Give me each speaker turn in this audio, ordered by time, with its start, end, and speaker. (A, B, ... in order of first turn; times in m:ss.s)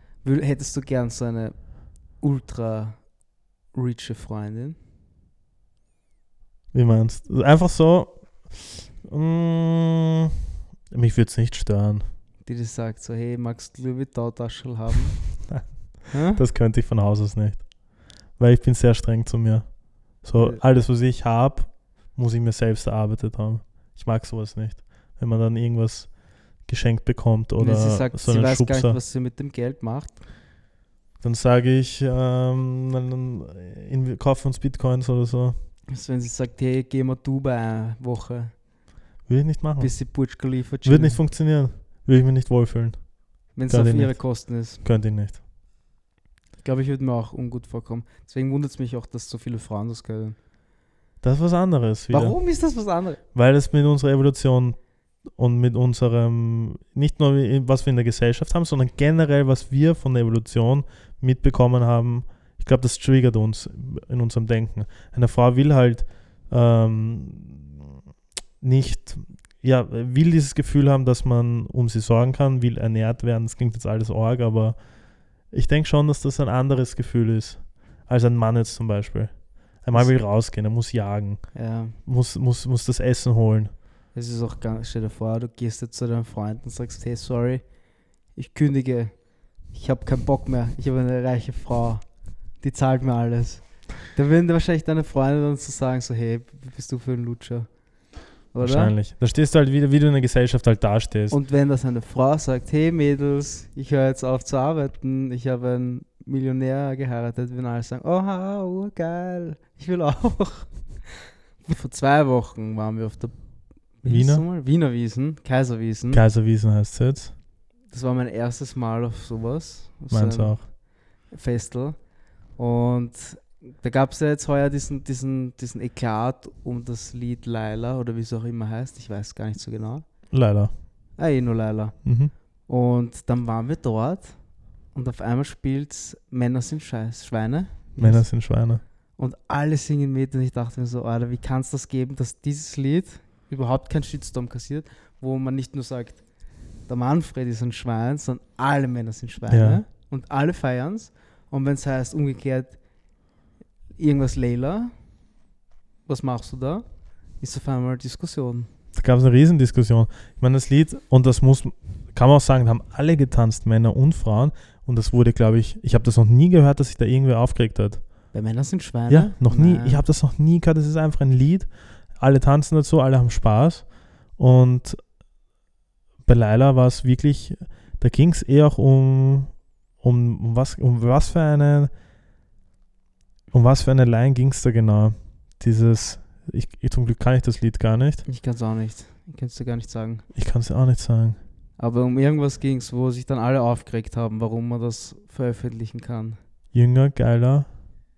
0:00.2-0:04.8 A
0:06.7-0:10.1 B
0:10.9-0:12.1 B
0:12.4-0:15.5 A
0:15.5-0:29.0 B
0:16.1-0:16.4 A
0:20.3-0:20.6 A
0:27.6-0:30.2 A
0:31.2-0:35.6 B
0:35.9-0:38.6 A
0:39.2-0:45.4 B
0:39.8-0:41.2 A
0:43.5-0:44.8 A
0:46.6-0:50.4 A
0:51.2-0:52.6 B
0:52.1-0:53.2 A
0:53.3-1:07.8 B
1:08.6-1:23.7 B
1:19.9-1:20.2 A
1:21.5-1:22.0 A
1:24.1-1:27.7 A
1:28.3-1:37.8 A
1:38.5-1:38.9 A
1:38.6-1:41.4 B
1:41.3-1:56.2 A
1:54.0-1:54.4 B
1:56.1-1:57.3 B
1:57.9-2:02.0 A
2:00.1-2:00.6 B
2:02.6-2:10.3 A
2:10.3-2:10.9 B
2:11.2-2:26.2 A
2:12.0-2:12.3 B
2:18.0-2:18.8 B
2:26.8-2:32.8 A
2:29.5-2:29.8 B
2:34.0-2:34.9 A
2:36.0-2:38.7 A
2:38.9-2:48.3 B
2:48.3-2:50.0 A
2:49.1-2:55.1 B
2:56.2-3:01.9 B
3:03.5-3:08.2 B
3:08.2-3:10.3 A
3:10.3-3:11.4 B
3:11.8-3:16.4 A
3:16.7-3:17.7 B